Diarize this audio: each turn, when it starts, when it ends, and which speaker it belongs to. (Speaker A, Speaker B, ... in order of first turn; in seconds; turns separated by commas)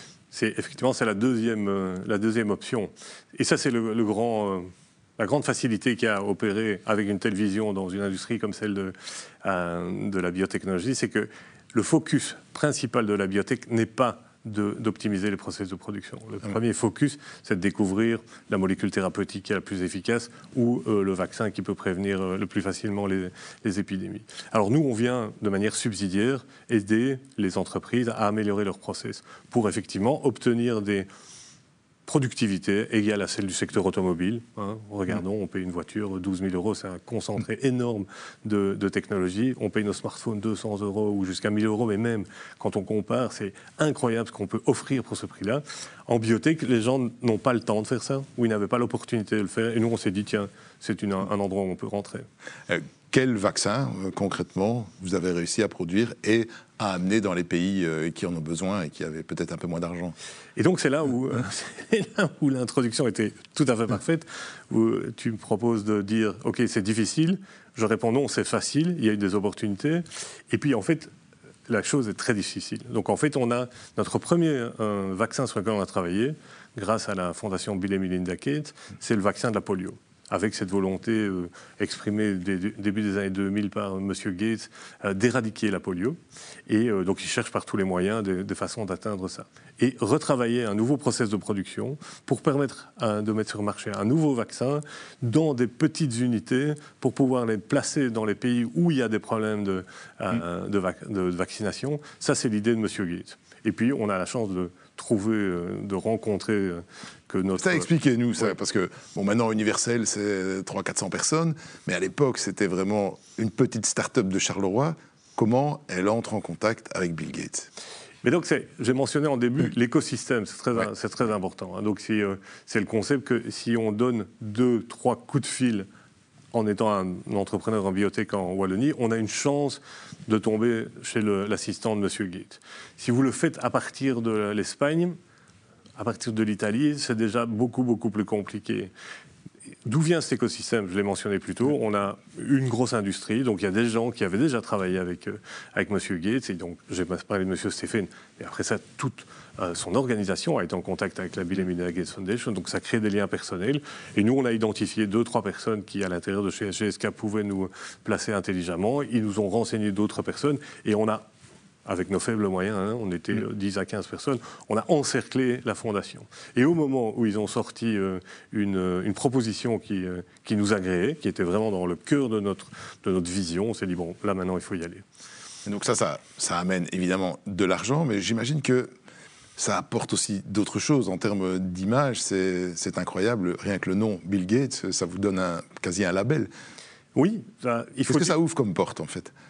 Speaker A: 0.3-31.1, Speaker A: 32.1-52.3, Speaker B: 52.7-60.1, Speaker A: 60.6-71.1, Speaker A: 71.7-107.9, Speaker B: 107.6-117.7, Speaker A: 118.2-125.9, Speaker A: 126.5-135.2, Speaker A: 136.0-138.9, Speaker A: 139.8-161.2, Speaker A: 161.8-175.0, Speaker B: 175.7-178.9, Speaker B: 179.6-186.5, Speaker A: 187.1-188.3, Speaker B: 188.1-189.3